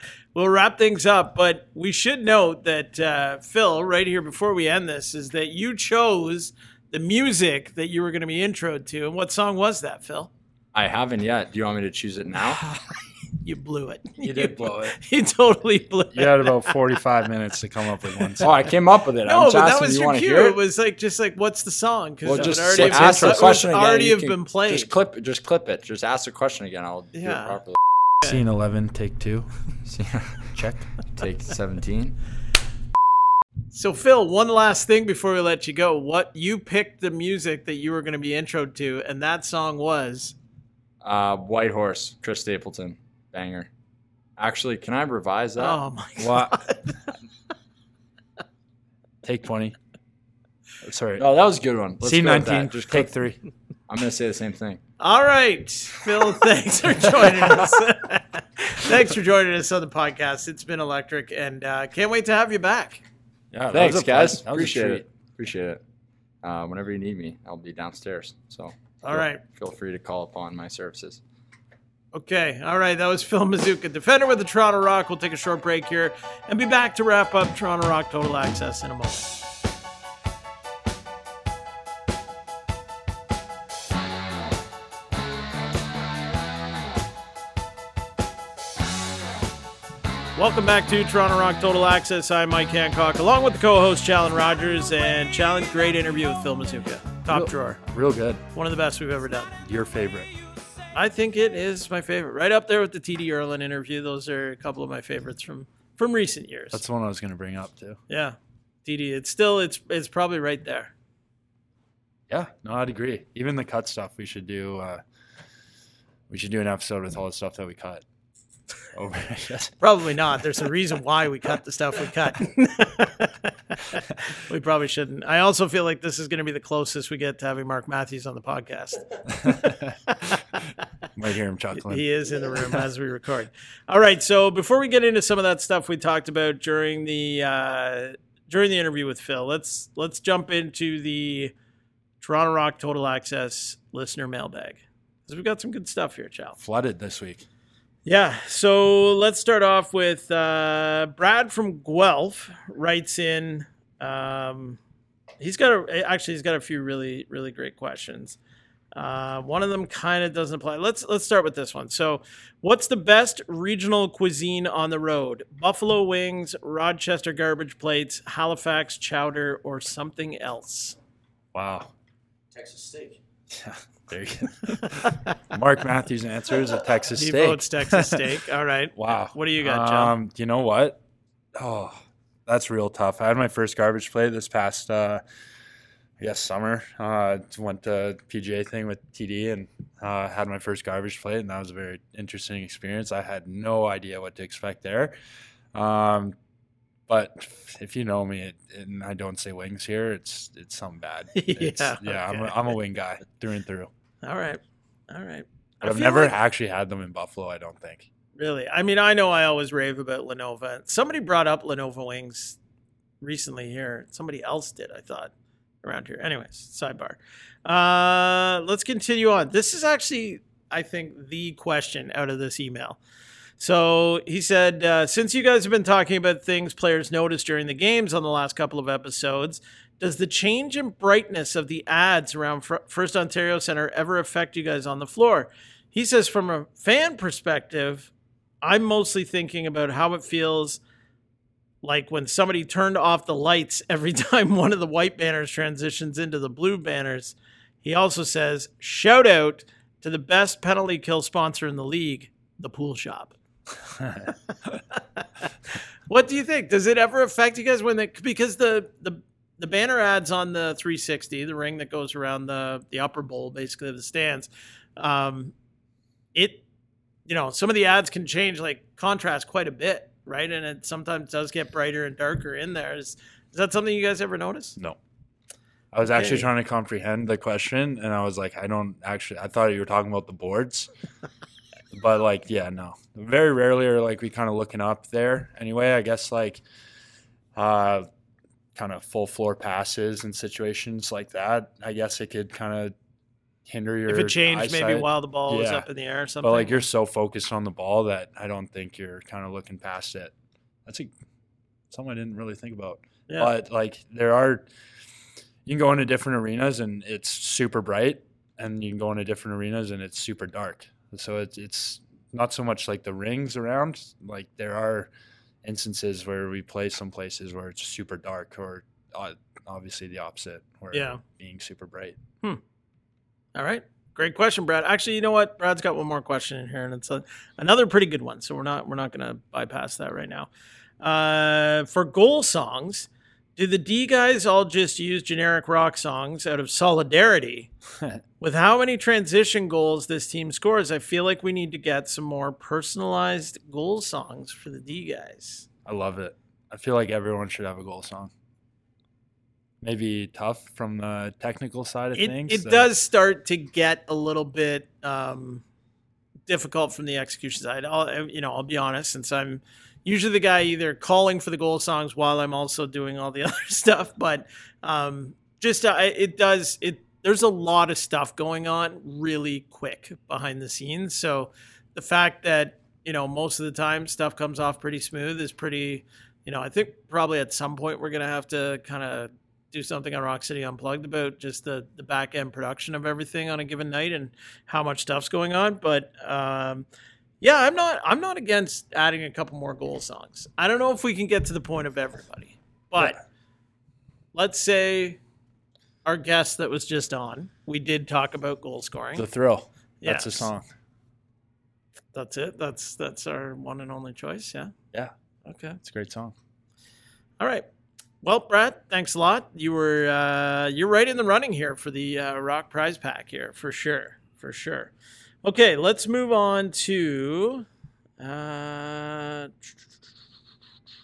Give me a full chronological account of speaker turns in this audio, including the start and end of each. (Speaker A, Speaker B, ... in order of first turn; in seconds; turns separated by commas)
Speaker A: 0.3-10.3, Speaker B: 10.7-12.7, Speaker A: 13.4-16.7, Speaker C: 14.2-15.0, Speaker C: 16.1-18.6, Speaker B: 18.4-20.6, Speaker A: 19.2-24.9, Speaker B: 22.2-27.8, Speaker C: 22.3-23.6, Speaker A: 27.1-27.6, Speaker C: 28.2-29.5, Speaker B: 29.9-32.2, Speaker C: 30.5-30.9, Speaker A: 33.7-40.3, Speaker B: 41.0-43.7, Speaker B: 44.4-45.8, Speaker A: 45.6-47.0, Speaker C: 46.2-46.6, Speaker C: 49.2-49.8, Speaker C: 50.8-51.2, Speaker B: 51.2-53.1, Speaker C: 52.0-53.4, Speaker B: 53.9-54.8, Speaker A: 55.0-63.0, Speaker C: 63.5-65.0, Speaker B: 63.7-65.8, Speaker B: 66.4-71.2, Speaker A: 69.0-69.4, Speaker A: 72.1-79.3, Speaker A: 90.3-97.8, Speaker C: 97.3-98.4, Speaker A: 98.5-99.5, Speaker C: 99.6-100.3, Speaker A: 100.9-106.8, Speaker C: 106.7-108.0, Speaker A: 108.1-110.9, Speaker C: 112.3-115.0, Speaker C: 116.3-118.0, Speaker C: 118.9-119.7, Speaker A: 119.8-130.4, Speaker C: 129.4-129.9, Speaker C: 131.1-132.0, Speaker A: 131.7-141.5, Speaker A: 142.2-146.6, Speaker C: 146.6-147.4, Speaker A: 148.0-154.8, Speaker A: 155.4-158.4, Speaker A: 158.9-171.0, Speaker C: 171.5-171.9, Speaker B: 172.5-173.2, Speaker C: 173.5-178.2, Speaker A: 177.1-180.2, Speaker C: 178.9-181.0, Speaker C: 181.6-185.2, Speaker C: 186.2-195.1, Speaker C: 195.7-196.3, Speaker C: 197.1-203.9, Speaker A: 201.3-202.6, Speaker A: 204.2-206.3, Speaker C: 205.8-208.1, Speaker A: 208.3-212.6, Speaker A: 213.2-215.3, Speaker A: 215.8-223.0, Speaker A: 223.6-238.1, Speaker A: 238.6-240.8, Speaker A: 241.8-253.3, Speaker C: 254.0-254.3, Speaker A: 254.9-255.2, Speaker A: 256.1-265.5, Speaker A: 266.3-266.6, Speaker A: 267.3-274.8, Speaker C: 275.9-280.9, Speaker A: 276.1-276.5, Speaker C: 281.9-286.6, Speaker C: 287.5-288.1, Speaker C: 288.7-292.9, Speaker C: 293.6-295.9, Speaker A: 294.1-296.8, Speaker C: 296.4-300.3, Speaker C: 300.9-301.1, Speaker C: 301.9-304.7, Speaker C: 305.6-315.1, Speaker C: 315.6-322.2, Speaker A: 320.9-321.2, Speaker A: 323.5-337.7, Speaker A: 338.4-345.7, Speaker C: 345.9-348.3, Speaker C: 349.8-352.9, Speaker A: 352.1-355.6, Speaker A: 356.5-386.9, Speaker A: 387.4-393.2, Speaker A: 394.3-395.2, Speaker A: 396.0-399.2, Speaker C: 399.1-400.6, Speaker A: 400.0-400.5, Speaker A: 402.1-404.7, Speaker A: 405.4-405.8, Speaker C: 405.8-406.3, Speaker A: 407.4-407.6, Speaker A: 408.2-414.9, Speaker A: 415.4-417.6, Speaker A: 418.2-419.7